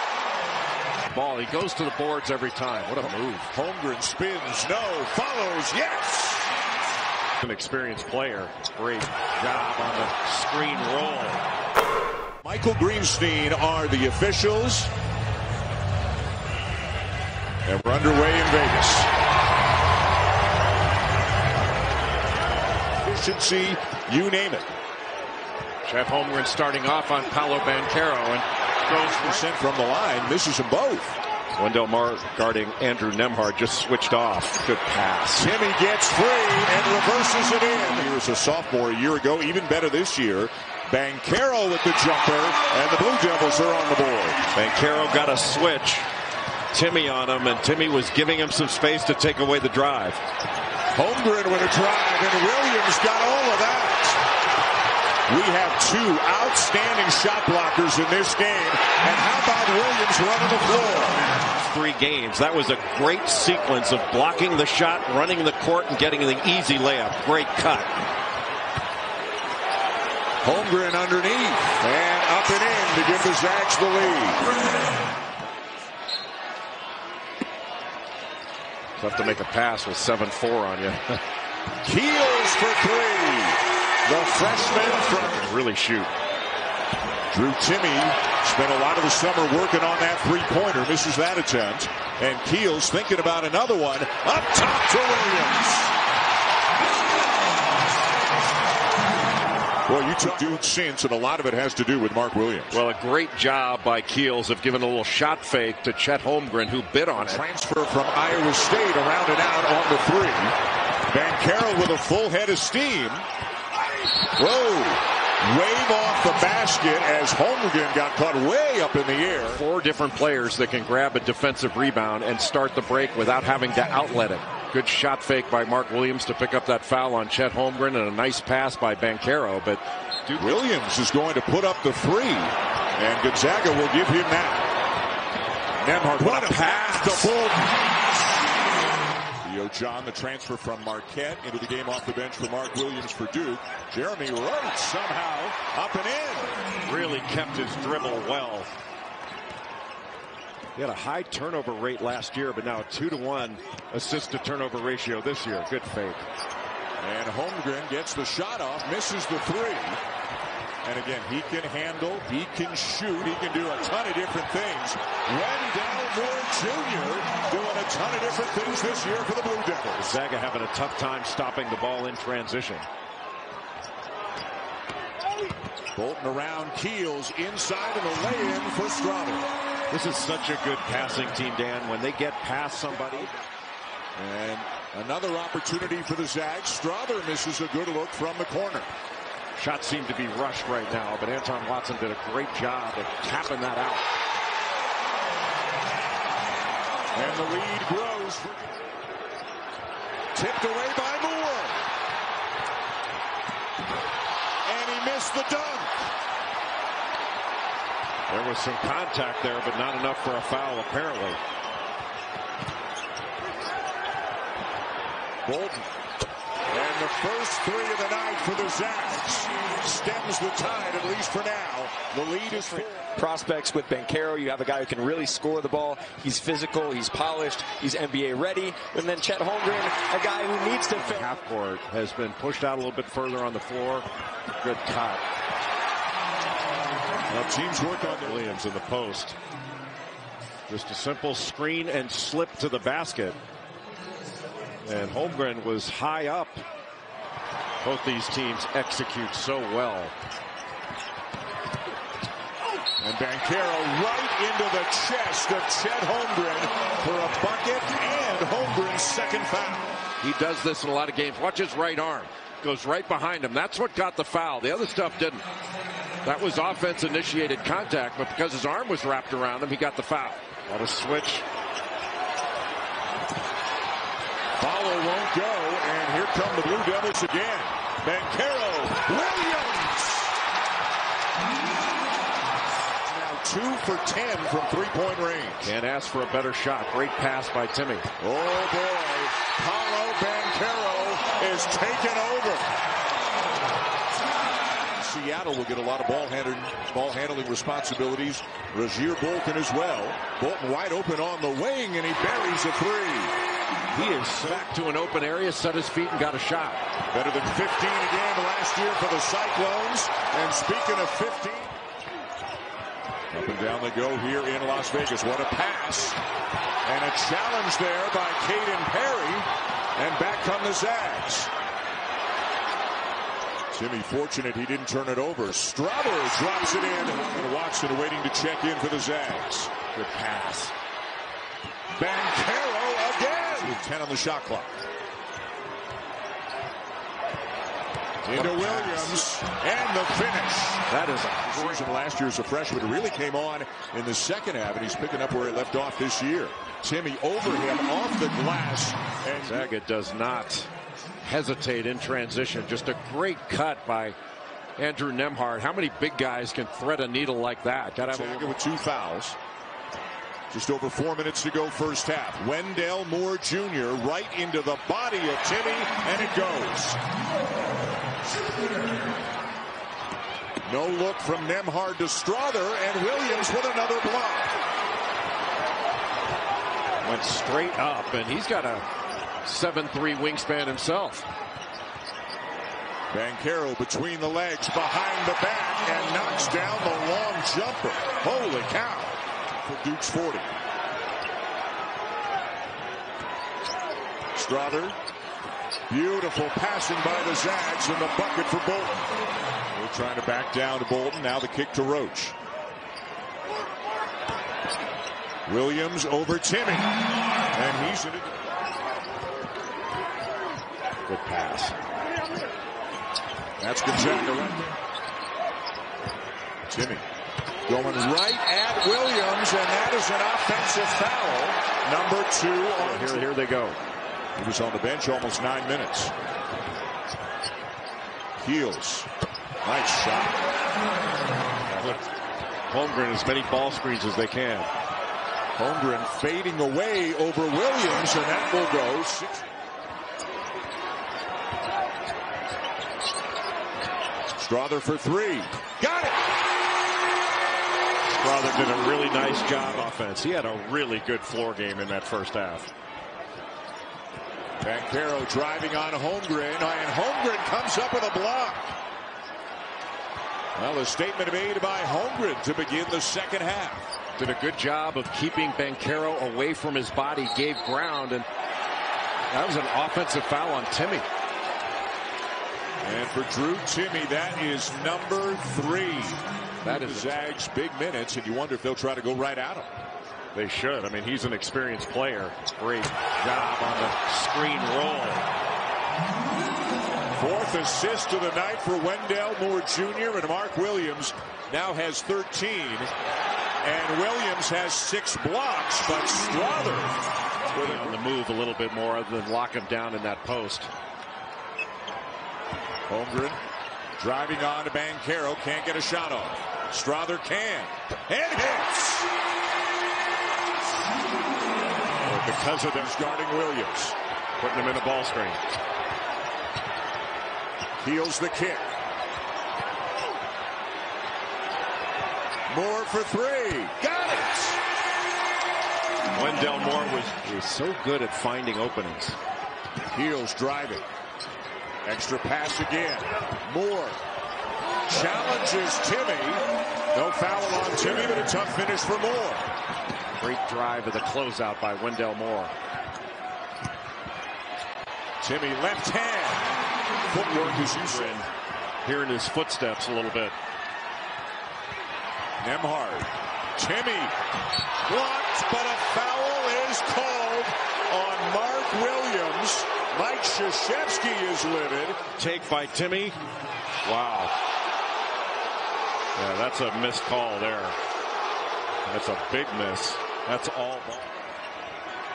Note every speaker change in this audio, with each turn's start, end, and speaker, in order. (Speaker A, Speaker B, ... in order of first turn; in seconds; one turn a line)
Speaker A: 1.1-3.5
Speaker B: 3.5-6.5
Speaker A: 7.4-11.4
Speaker B: 12.4-14.9
Speaker B: 17.6-19.1
Speaker B: 23.0-24.7
Speaker A: 25.8-29.5
Speaker B: 29.0-31.2
Speaker A: 31.6-35.5
Speaker B: 35.4-44.4
Speaker A: 44.5-46.1
Speaker A: 46.7-50.2
Speaker B: 50.9-54.2
Speaker B: 55.3-61.2
Speaker A: 61.5-68.0
Speaker B: 70.4-74.5
Speaker A: 79.0-81.2
Speaker B: 81.8-85.5
Speaker A: 85.1-86.1
Speaker B: 87.3-95.9
Speaker B: 99.9-102.8
Speaker A: 102.7-107.4
Speaker B: 107.2-110.6
Speaker B: 111.1-113.3
Speaker B: 114.4-119.6
Speaker A: 119.5-130.6
Speaker B: 130.4-134.7
Speaker B: 135.8-137.7
Speaker A: 136.2-137.4
Speaker B: 139.4-146.6
Speaker A: 146.9-148.7
Speaker A: 150.8-156.3
Speaker B: 157.0-160.0
Speaker B: 160.8-170.2
Speaker A: 170.0-172.9
Speaker B: 176.0-179.5
Speaker A: 179.9-183.3
Speaker B: 184.2-188.9
Speaker A: 189.6-194.1
Speaker B: 197.1-198.8
Speaker B: 200.3-201.9
Speaker B: 204.7-206.1
Speaker A: 208.3-211.4
Speaker B: 215.4-215.9
Speaker B: 216.7-223.1
Speaker C: 222.5-231.3
Speaker A: 230.9-234.1
Speaker A: 234.6-235.2
Speaker B: 237.3-238.6
Speaker A: 238.2-239.4
Speaker A: 240.7-243.4
Speaker A: 244.8-246.6
Speaker A: 247.8-250.2
Speaker B: 253.0-260.0
Speaker A: 260.2-265.5
Speaker A: 266.2-271.5
Speaker B: 274.6-280.4
Speaker B: 283.1-285.7
Speaker A: 285.6-288.1
Speaker B: 288.2-292.7
Speaker B: 294.9-303.4
Speaker A: 303.9-306.8
Speaker B: 304.4-304.7
Speaker B: 307.1-311.8
Speaker B: 313.3-316.2
Speaker B: 316.9-321.5
Speaker B: 323.7-329.7
Speaker A: 329.9-330.8
Speaker B: 331.9-334.8
Speaker B: 338.2-340.9
Speaker A: 338.3-339.3
Speaker A: 340.9-341.8
Speaker B: 341.4-349.6
Speaker A: 349.3-350.7
Speaker A: 351.2-354.2
Speaker A: 354.8-358.6
Speaker B: 358.1-359.4
Speaker B: 360.5-367.0
Speaker B: 370.7-374.6
Speaker A: 377.0-378.9
Speaker A: 379.4-381.3
Speaker B: 383.1-390.6
Speaker B: 394.3-395.0
Speaker B: 395.9-399.0
Speaker B: 399.7-402.4
Speaker B: 405.5-406.9
Speaker B: 407.5-408.4
Speaker A: 411.1-411.8
Speaker B: 413.6-414.7
Speaker B: 416.7-417.0
Speaker B: 417.7-423.3
Speaker A: 422.8-423.8
Speaker B: 424.4-426.1
Speaker B: 428.4-429.1
Speaker B: 429.6-430.4
Speaker A: 431.7-432.0
Speaker A: 432.7-434.7
Speaker B: 435.6-439.5
Speaker B: 444.3-446.2
Speaker A: 448.1-452.7
Speaker B: 454.6-458.7
Speaker B: 460.6-463.9
Speaker A: 464.2-468.3
Speaker A: 469.3-471.1
Speaker B: 472.8-479.7
Speaker A: 476.6-477.3
Speaker A: 480.3-485.3
Speaker B: 487.1-492.9
Speaker B: 493.6-497.0
Speaker B: 497.5-498.0
Speaker A: 497.5-500.7
Speaker B: 502.9-503.4
Speaker B: 504.0-509.1
Speaker A: 512.0-513.0
Speaker B: 512.7-514.0
Speaker A: 514.4-515.4
Speaker B: 517.8-518.7
Speaker B: 522.5-523.9
Speaker A: 523.9-524.6
Speaker A: 526.1-529.2
Speaker B: 529.9-530.9
Speaker B: 531.9-534.0
Speaker B: 534.9-539.5
Speaker A: 540.2-542.5
Speaker B: 545.2-546.6
Speaker B: 547.1-548.2
Speaker A: 547.6-548.3
Speaker A: 548.8-550.4
Speaker B: 552.4-554.1
Speaker B: 554.9-562.0
Speaker A: 562.2-563.2
Speaker A: 563.8-564.3
Speaker A: 566.1-567.8
Speaker A: 568.9-571.3